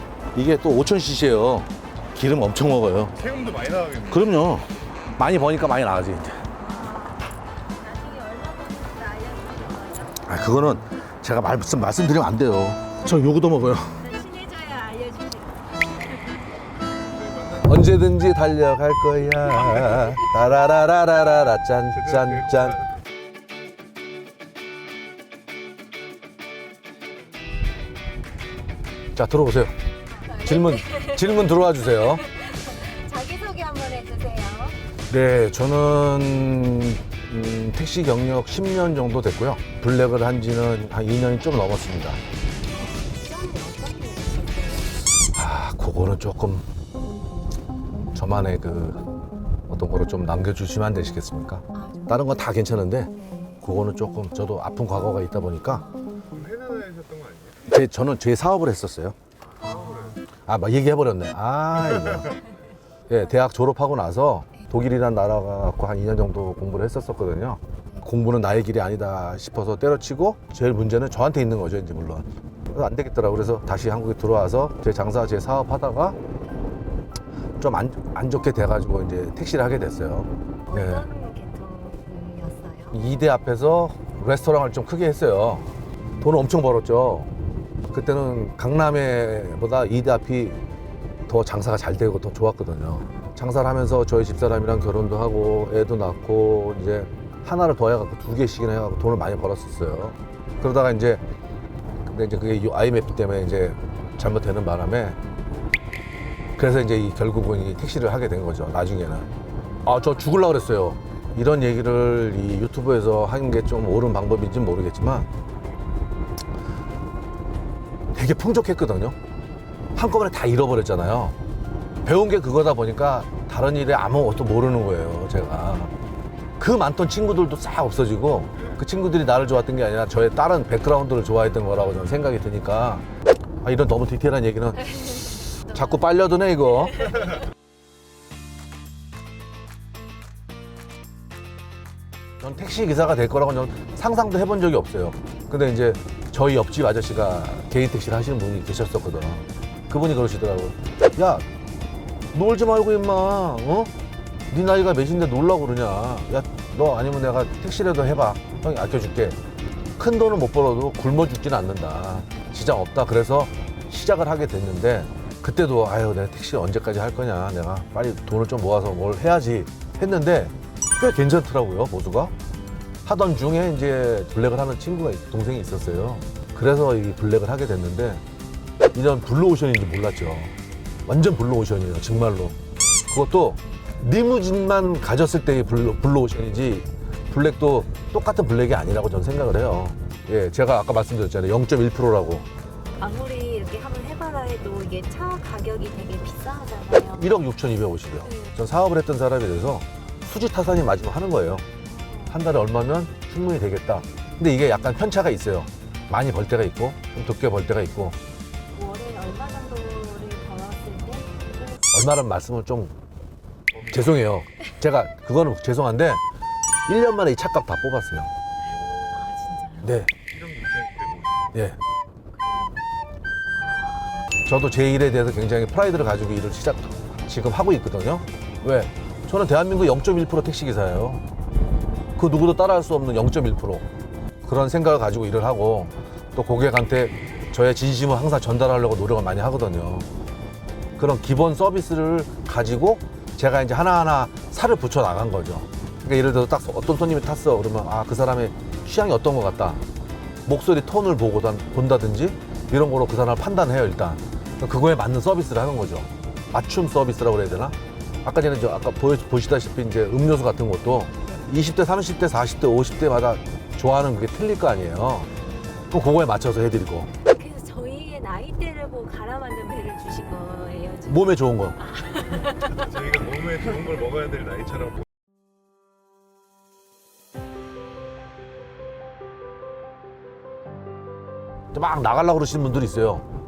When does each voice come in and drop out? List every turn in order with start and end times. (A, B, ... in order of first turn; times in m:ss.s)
0:00.3-0:03.1 A
0:03.2-0:04.3 B
0:04.1-0:06.4 A
0:06.6-0:10.3 C
0:10.2-0:14.0 A
0:14.0-0:16.2 C
0:17.1-0:17.8 B
0:17.6-0:22.8 A
0:22.0-0:22.8 B
0:29.1-0:29.7 A
0:30.1-0:34.8 C
0:30.4-0:32.2 A
0:35.1-0:42.2 A
0:42.8-0:45.0 C
0:45.3-0:46.6 A
0:48.1-0:49.0 A
0:49.7-0:55.8 A
0:51.7-0:52.2 C
0:56.3-0:57.7 B
0:57.7-0:59.2 A
0:59.6-1:00.2 B
0:59.6-1:00.2 C
1:00.4-1:02.4 A
1:03.1-1:16.2 A
1:17.6-1:21.1 A
1:20.7-1:23.0 C
1:22.9-1:25.7 A
1:26.2-1:27.3 A
1:27.9-1:30.6 A
1:31.3-1:41.2 A
1:42.0-1:45.2 A
1:46.6-1:49.3 A
1:49.8-1:55.3 A
1:58.1-1:59.2 A
1:59.9-2:01.4 A
2:02.0-2:05.9 A
2:06.6-2:13.0 A
2:13.6-2:15.0 A
2:15.0-2:15.4 C
2:15.6-2:17.1 A
2:22.4-2:31.4 A
2:32.3-2:33.9 A
2:34.5-2:39.4 A
2:40.0-2:52.3 A
2:53.0-2:58.2 A
2:58.9-3:00.5 A
3:01.0-3:02.6 A
3:03.1-3:12.5 A
3:13.0-3:17.4 C
3:17.2-3:21.6 A
3:18.2-3:18.5 C
3:21.8-3:22.4 C
3:22.3-3:28.2 A
3:28.7-3:31.8 C
3:31.9-3:32.9 A
3:33.7-3:34.3 B
3:33.9-3:36.2 A
3:36.9-3:38.3 A
3:38.7-3:39.2 B
3:39.1-3:39.9 C
3:39.8-3:40.1 A
3:40.2-3:41.5 B
3:42.3-3:42.8 C
3:43.5-3:44.3 C
3:44.4-3:51.2 A
3:52.2-3:53.9 A
3:54.4-4:00.1 A
4:01.0-4:09.8 A
4:10.4-4:25.3 A
4:25.9-4:27.1 A
4:27.2-4:32.8 C
4:31.1-4:31.8 A
4:32.7-4:35.0 B
4:41.7-4:43.2 A